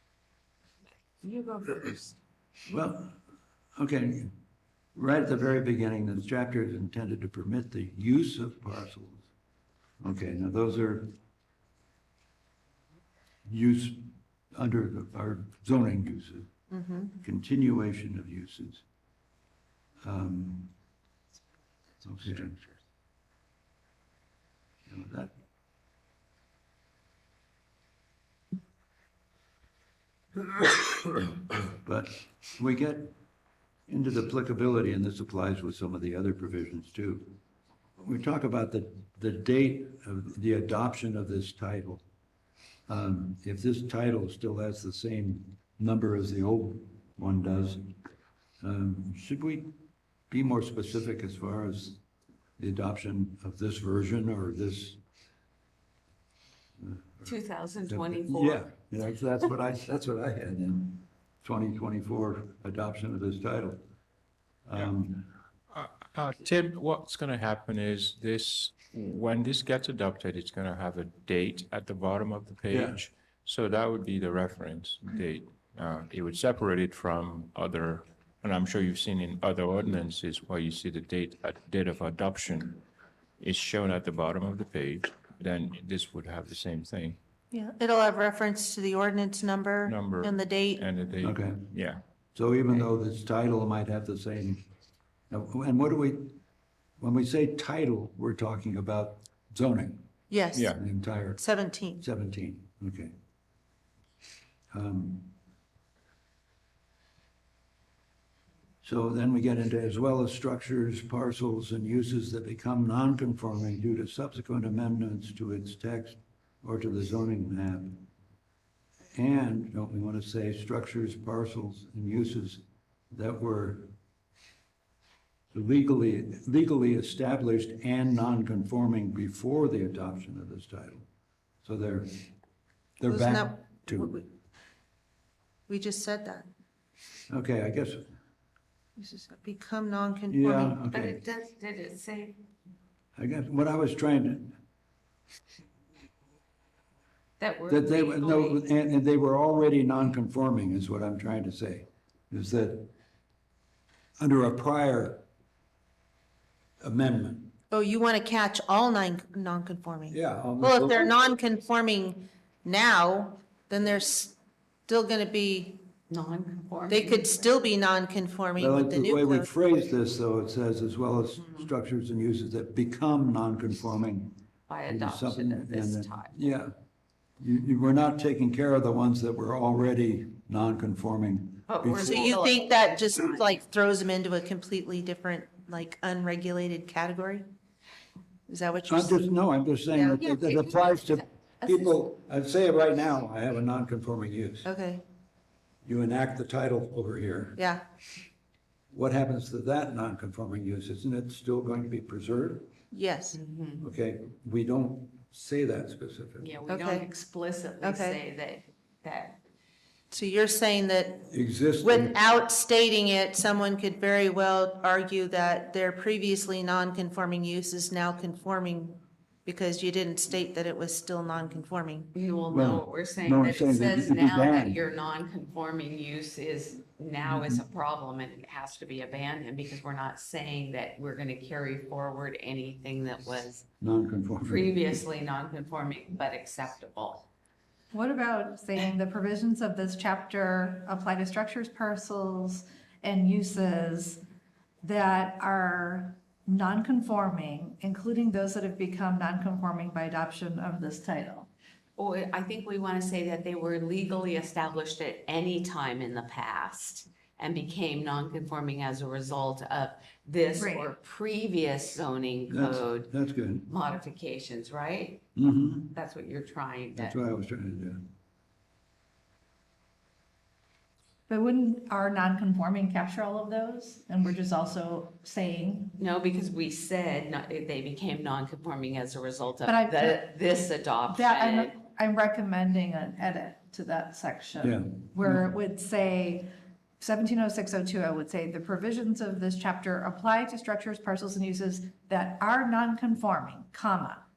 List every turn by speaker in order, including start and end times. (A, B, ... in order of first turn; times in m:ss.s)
0:01.2-0:02.2 A
0:02.7-0:03.2 B
0:03.8-0:04.3 B
0:05.0-0:09.2 B
0:10.0-0:11.1 B
0:13.4-0:16.5 B
0:16.7-0:17.1 C
0:17.2-0:18.8 B
0:20.0-0:20.7 B
0:22.0-0:22.6 B
0:24.9-0:25.3 B
0:31.8-0:33.1 B
0:33.9-0:37.4 B
0:38.0-0:42.0 B
0:42.9-0:47.9 B
0:48.6-0:49.7 B
0:50.3-0:52.0 B
0:52.6-0:55.0 B
0:56.8-0:57.3 B
0:57.2-0:58.7 A
0:57.9-1:03.8 B
1:04.6-1:05.3 B
1:05.7-1:22.8 D
1:12.7-1:13.0 B
1:23.4-1:27.2 D
1:27.5-1:30.8 C
1:29.8-1:32.0 D
1:31.2-1:31.7 B
1:32.3-1:34.6 B
1:35.3-1:36.4 B
1:37.0-1:40.0 B
1:40.3-1:40.8 C
1:40.5-1:40.8 D
1:40.7-1:43.1 B
1:41.4-1:42.0 C
1:44.7-1:45.3 B
1:48.8-1:58.1 B
1:59.1-2:03.9 B
2:05.5-2:11.0 B
2:11.6-2:12.2 B
2:13.0-2:14.2 B
2:13.1-2:14.2 C
2:15.7-2:16.5 C
2:17.3-2:18.1 B
2:19.0-2:20.8 C
2:20.3-2:21.2 B
2:20.9-2:22.4 A
2:23.2-2:24.6 B
2:27.4-2:28.6 A
2:27.7-2:32.9 B
2:34.2-2:35.2 B
2:36.8-2:37.5 B
2:37.7-2:44.4 C
2:40.1-2:41.2 B
2:44.9-2:45.8 C
2:46.1-2:47.4 A
2:46.9-2:49.5 C
2:48.6-2:56.7 B
2:54.7-2:56.3 A
2:57.4-3:02.3 B
3:01.7-3:03.6 A
3:02.0-3:07.4 C
3:08.5-3:09.2 C
3:08.9-3:14.7 B
3:09.9-3:10.6 C
3:14.6-3:15.0 C
3:15.8-3:17.6 B
3:17.6-3:17.8 C
3:18.9-3:22.7 B
3:22.9-3:23.4 C
3:23.3-3:23.8 A
3:23.8-3:26.5 B
3:26.4-3:29.4 A
3:26.7-3:27.1 C
3:27.8-3:28.2 C
3:30.1-3:31.3 C
3:31.3-3:32.2 B
3:31.8-3:42.1 C
3:42.1-3:53.6 A
3:42.5-3:44.8 B
3:47.2-3:47.6 B
3:53.8-3:54.8 B
3:54.4-3:57.3 A
3:57.9-4:04.2 E
4:04.8-4:11.5 E
4:12.0-4:23.1 A
4:20.6-4:20.9 E
4:22.5-4:23.7 B
4:23.6-4:25.3 A
4:25.4-4:25.9 B
4:25.9-4:27.2 A
4:27.0-4:28.0 B
4:31.3-4:36.0 E
4:36.0-4:41.7 A
4:39.6-4:40.3 E
4:41.1-4:54.2 E
4:44.6-4:45.5 B